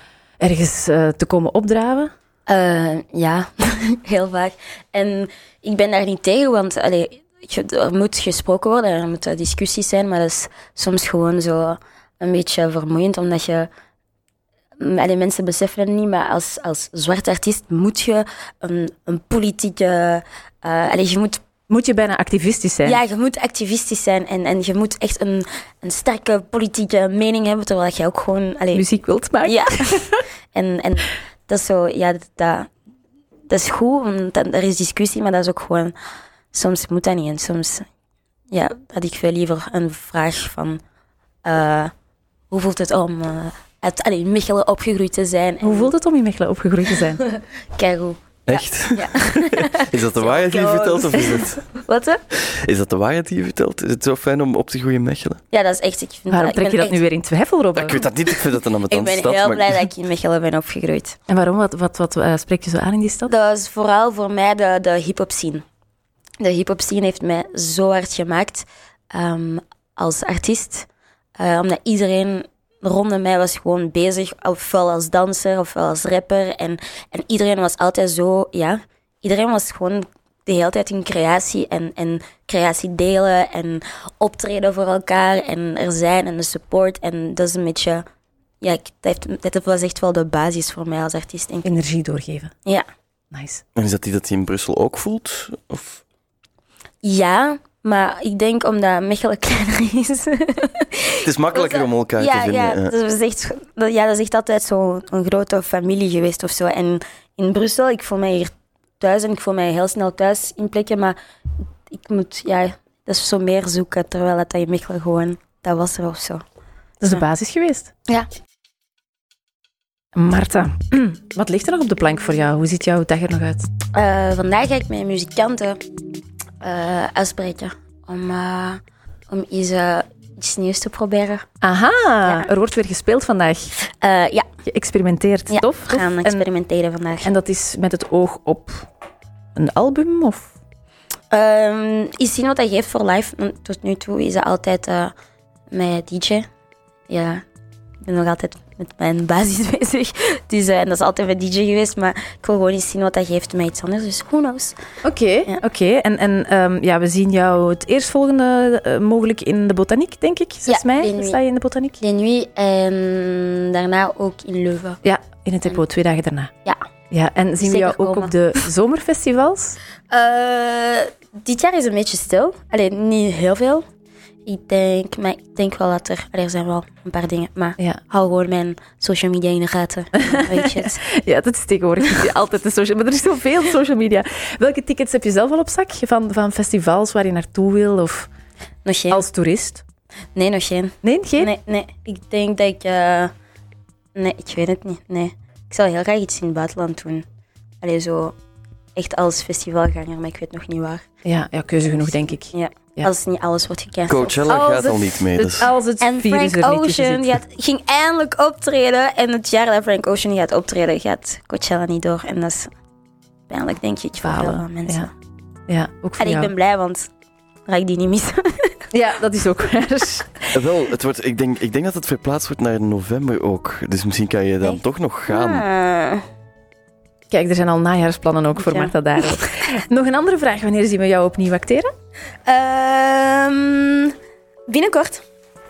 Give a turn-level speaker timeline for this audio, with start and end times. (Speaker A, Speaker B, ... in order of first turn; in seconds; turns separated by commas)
Speaker A: 0.4-2.1, Speaker B: 2.5-13.7, Speaker B: 14.8-21.4, Speaker A: 21.7-23.0, Speaker B: 22.8-28.9, Speaker A: 28.7-30.2, Speaker B: 29.4-32.7, Speaker B: 33.5-35.9, Speaker B: 36.5-37.9, Speaker B: 38.5-40.8, Speaker B: 41.4-41.9, Speaker B: 42.5-45.9, Speaker A: 45.6-47.2, Speaker B: 47.2-52.2, Speaker C: 48.5-51.6, Speaker C: 52.3-55.4, Speaker B: 55.5-57.0, Speaker A: 56.3-58.0, Speaker C: 57.8-59.7, Speaker B: 58.3-61.2, Speaker A: 61.3-63.3, Speaker B: 63.3-65.6, Speaker B: 66.4-88.0, Speaker B: 88.6-91.8, Speaker A: 91.6-92.5, Speaker A: 93.3-93.6, Speaker C: 93.8-96.0, Speaker B: 97.0-111.2, Speaker C: 101.2-102.9, Speaker B: 111.9-116.4, Speaker A: 117.0-117.9, Speaker A: 120.1-123.7, Speaker B: 123.9-125.8, Speaker B: 126.6-131.4, Speaker A: 131.6-133.7, Speaker B: 133.8-134.4, Speaker A: 134.6-136.4, Speaker B: 135.5-137.3, Speaker A: 137.2-138.9, Speaker A: 139.6-140.5, Speaker B: 141.3-145.1, Speaker B: 145.7-146.5, Speaker B: 147.1-147.4, Speaker B: 148.0-154.8, Speaker A: 155.0-162.0, Speaker B: 160.7-161.4, Speaker B: 162.0-165.0, Speaker A: 165.0-166.5, Speaker A: 167.1-169.8, Speaker B: 167.6-168.3, Speaker B: 170.1-173.8, Speaker B: 174.4-181.0, Speaker A: 180.2-188.3, Speaker B: 188.8-189.2, Speaker A: 189.1-189.8, Speaker B: 190.3-193.3, Speaker A: 191.0-191.5, Speaker B: 194.1-197.2, Speaker B: 197.8-198.3, Speaker B: 198.9-201.0, Speaker A: 201.2-203.1, Speaker B: 202.1-204.5, Speaker C: 204.1-205.7, Speaker A: 204.4-207.4, Speaker B: 206.0-212.7, Speaker B: 213.5-215.1, Speaker A: 214.2-215.1, Speaker A: 215.7-216.5, Speaker B: 216.2-217.1, Speaker B: 217.7-218.8, Speaker A: 218.9-220.7, Speaker C: 220.5-225.6, Speaker B: 224.6-226.2, Speaker A: 227.3-231.9, Speaker B: 228.6-229.5, Speaker B: 232.4-234.1, Speaker B: 234.7-235.2